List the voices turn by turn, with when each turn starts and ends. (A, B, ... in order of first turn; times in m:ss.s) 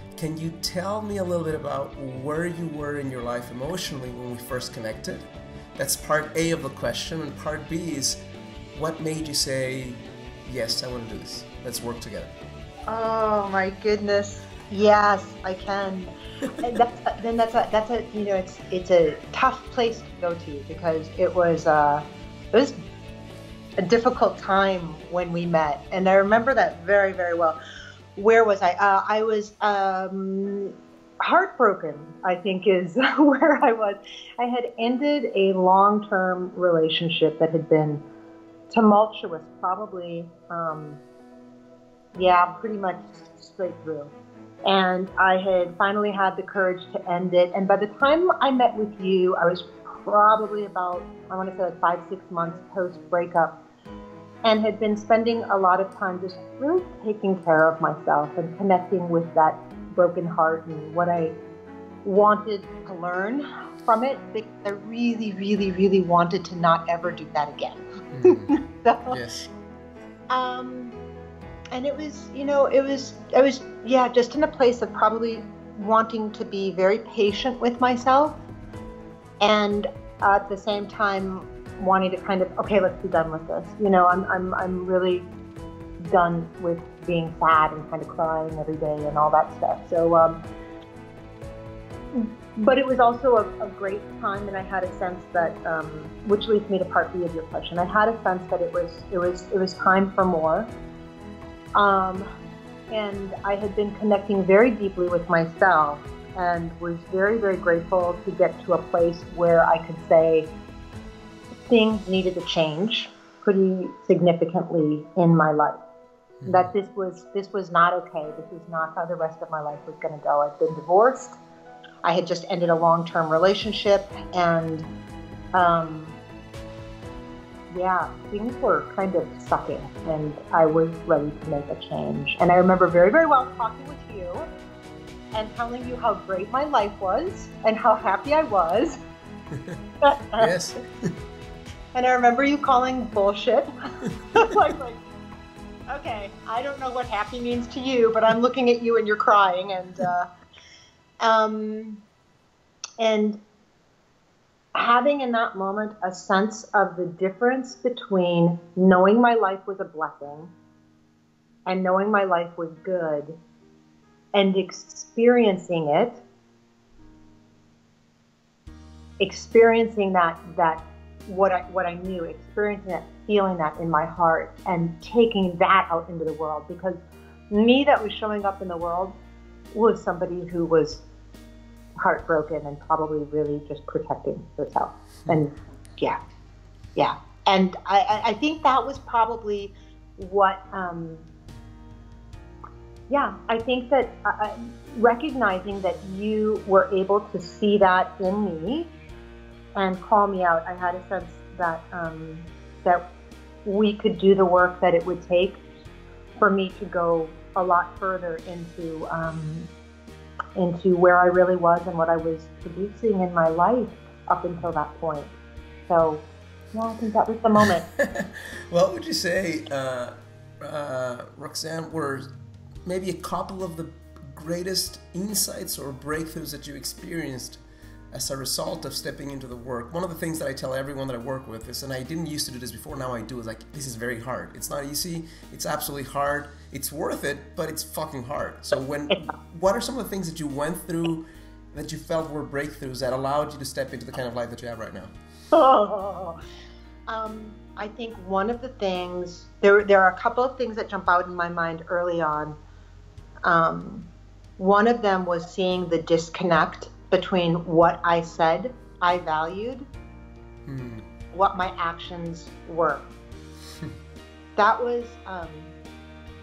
0:00.2-0:05.2 A
0:05.8-0:08.2 A
0:08.7-0:12.3 A
0:12.9-0:16.1 B
0:16.6-0:22.8 B
0:23.8-0:27.6 B
0:28.2-0:38.0 B
0:38.7-0:41.0 B
0:42.2-0:44.1 B
0:44.6-0:53.6 B
0:54.4-1:01.4 B
1:02.0-1:09.2 B
1:08.1-1:08.6 A
1:09.1-1:09.5 A
1:10.3-1:11.0 B
1:11.7-1:18.4 B
1:19.4-1:25.3 B
1:26.0-1:30.4 B
1:32.1-1:40.7 B
1:41.8-1:42.3 B
1:42.9-1:50.5 B
1:51.7-1:55.8 B
1:56.4-1:56.7 A
1:56.5-2:01.4 B
2:02.0-2:04.9 B
2:05.5-2:06.2 B
2:07.7-2:14.4 B
2:15.3-2:19.0 B
2:19.5-2:19.8 A
2:20.0-2:20.5 B
2:20.4-2:20.9 A
2:21.9-2:23.7 B
2:24.3-2:25.0 B
2:25.9-2:30.3 B
2:31.2-2:32.0 B
2:33.0-2:33.4 B
2:34.7-2:40.5 B
2:41.6-2:43.4 B
2:44.3-2:46.2 B
2:49.2-2:59.2 B
2:59.7-3:01.0 B
3:02.0-3:06.2 B
3:07.0-3:11.2 B
3:13.1-3:18.9 B
3:19.7-3:23.0 B
3:23.6-3:25.6 B
3:26.4-3:29.7 B
3:30.6-3:35.3 B
3:35.9-3:37.8 B
3:37.6-3:42.3 A
3:42.8-3:47.6 A
3:48.1-4:05.1 A
4:05.5-4:06.4 B
4:07.1-4:12.6 B
4:13.4-4:19.9 B
4:20.7-4:21.1 A
4:21.3-4:23.1 B
4:24.6-4:25.7 B